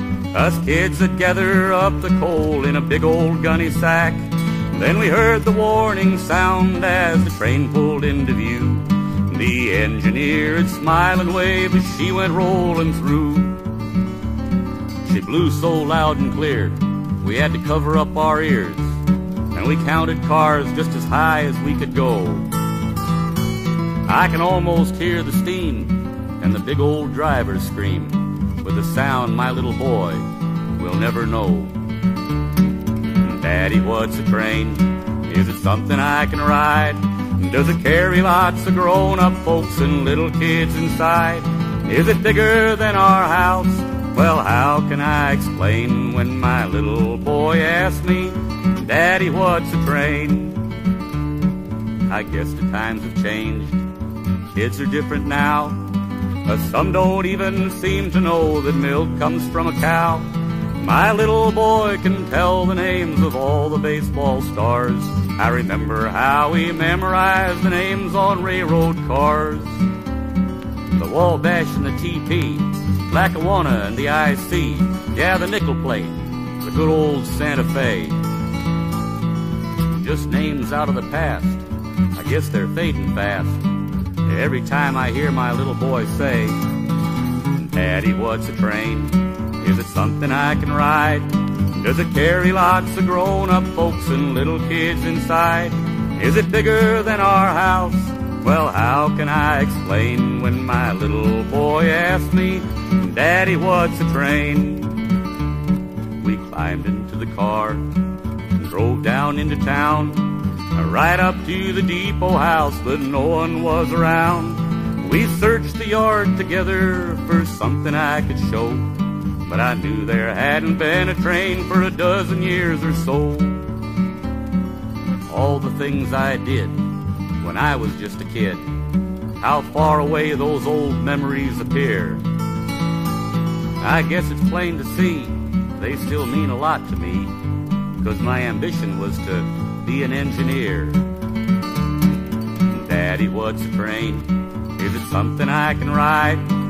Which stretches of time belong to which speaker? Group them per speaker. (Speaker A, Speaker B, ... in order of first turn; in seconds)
Speaker A: 0.3-13.6, 15.1-19.0, 19.5-22.5, 24.1-30.2, 30.8-31.7, 33.2-50.6, 52.1-53.8, 54.5-55.8, 56.5-60.3, 60.8-69.8, 70.9-78.2, 80.0-81.6, 82.1-83.6, 84.3-86.6, 87.5-105.1, 106.2-107.8, 108.6-118.9, 119.5-123.8, 125.3-126.8, 127.4-128.7, 129.4-132.2, 133.8-137.3, 138.0-141.0, 142.7-146.4